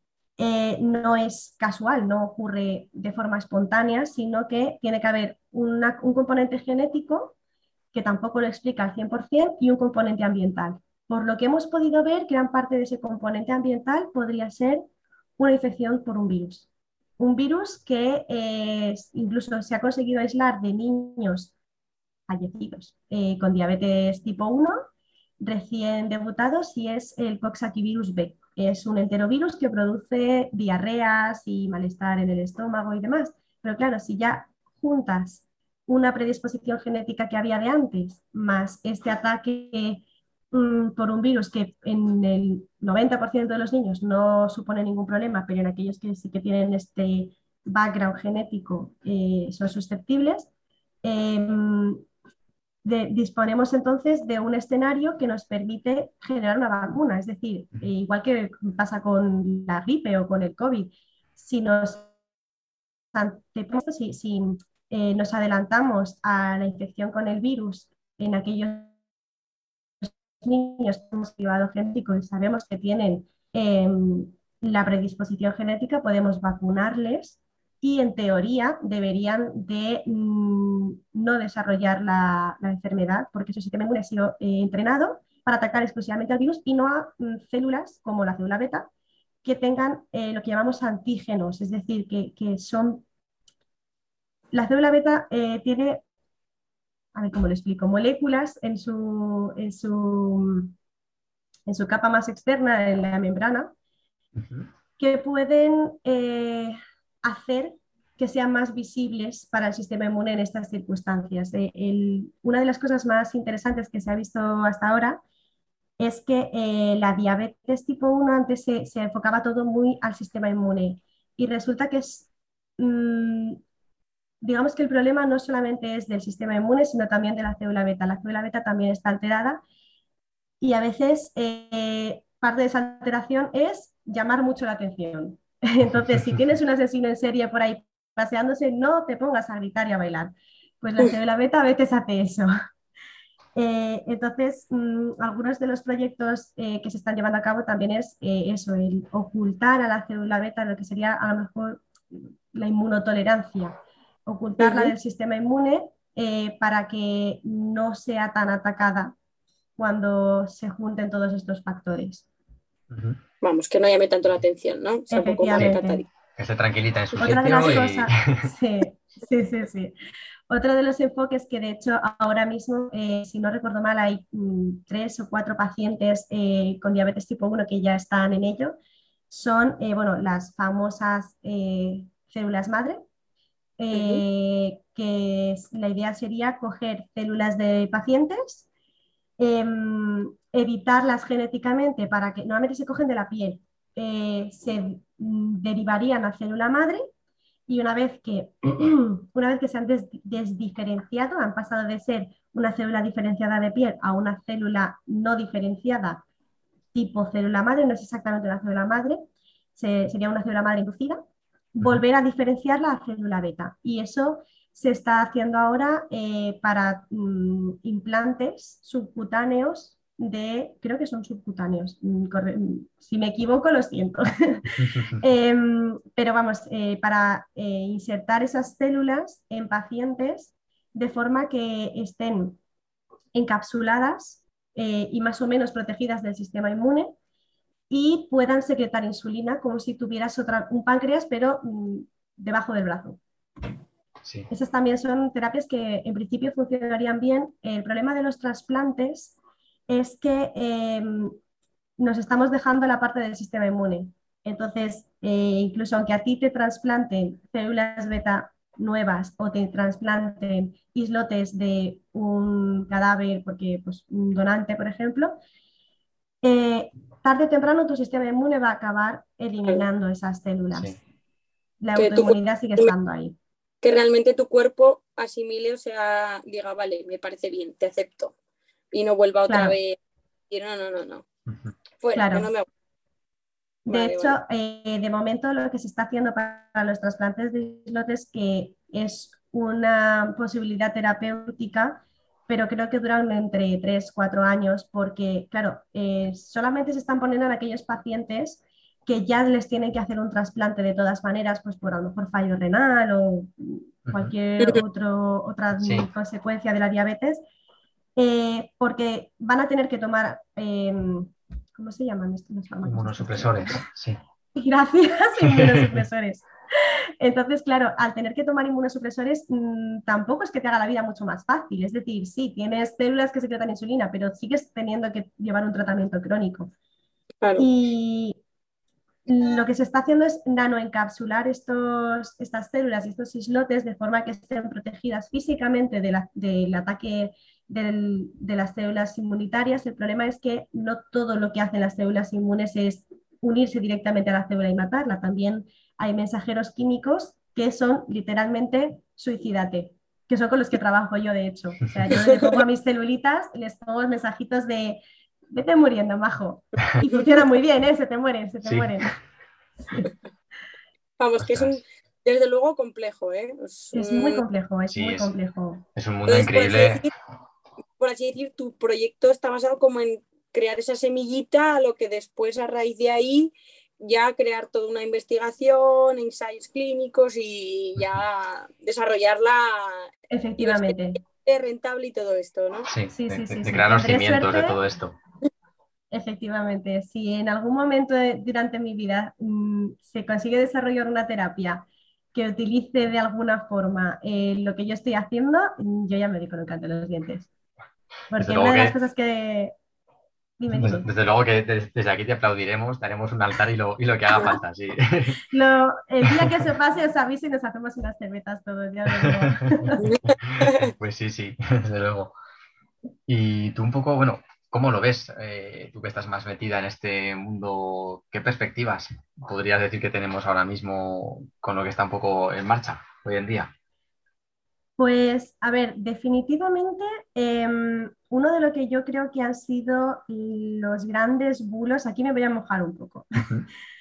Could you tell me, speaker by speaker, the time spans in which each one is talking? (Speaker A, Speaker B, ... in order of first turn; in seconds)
Speaker A: 0.4-7.3, 7.9-14.9, 15.4-16.7, 17.2-21.5, 22.3-24.8, 25.4-50.5, 51.0-52.1, 52.8-62.1, 63.1-68.9, 70.0-88.9, 89.4-93.0, 94.5-96.0, 97.1-100.8, 101.7-103.7, 105.0-115.2, 116.0-123.6, 124.4-129.6, 130.6-142.5, 143.6-159.1, 159.8-162.3, 165.1-166.0, 167.2-169.9, 170.5-178.8, 179.3-183.0, 183.8-188.7, 189.4-197.1, 197.7-206.2, 206.9-209.2, 209.8-211.2, 211.8-232.6, 233.3-237.1, 237.9-243.2, 244.5-249.4, 249.9-251.4, 252.0-265.4, 266.4-270.9, 271.8-273.4, 279.5-279.8, 282.1-282.5, 283.9-307.4, 308.1-313.8, 314.6-326.7, 327.6-328.4, 329.3-359.1, 363.9-365.8, 380.3-381.2, 383.1-384.8, 386.1-397.5, 398.3-399.7, 400.6-401.1, 405.5-410.0, 425.0-433.4
Speaker B: 104.3-104.7, 162.9-163.2, 166.4-168.5, 224.8-225.2, 244.2-244.5, 281.5-281.7, 304.1-304.3, 305.8-306.1, 312.8-314.2, 315.4-316.0, 358.6-358.9, 361.4-361.8, 364.9-365.4, 365.9-367.1, 382.9-385.1, 398.4-399.0, 400.7-405.4, 406.3-406.6, 409.1-412.3, 413.3-423.7
Speaker C: 154.6-154.9, 163.4-166.1, 183.9-184.2, 272.0-272.9, 273.8-278.3, 278.9-280.0, 280.5-281.2, 282.0-282.6, 283.9-284.4, 327.4-327.7, 361.2-364.4, 366.3-367.1, 368.0-382.9, 410.0-410.9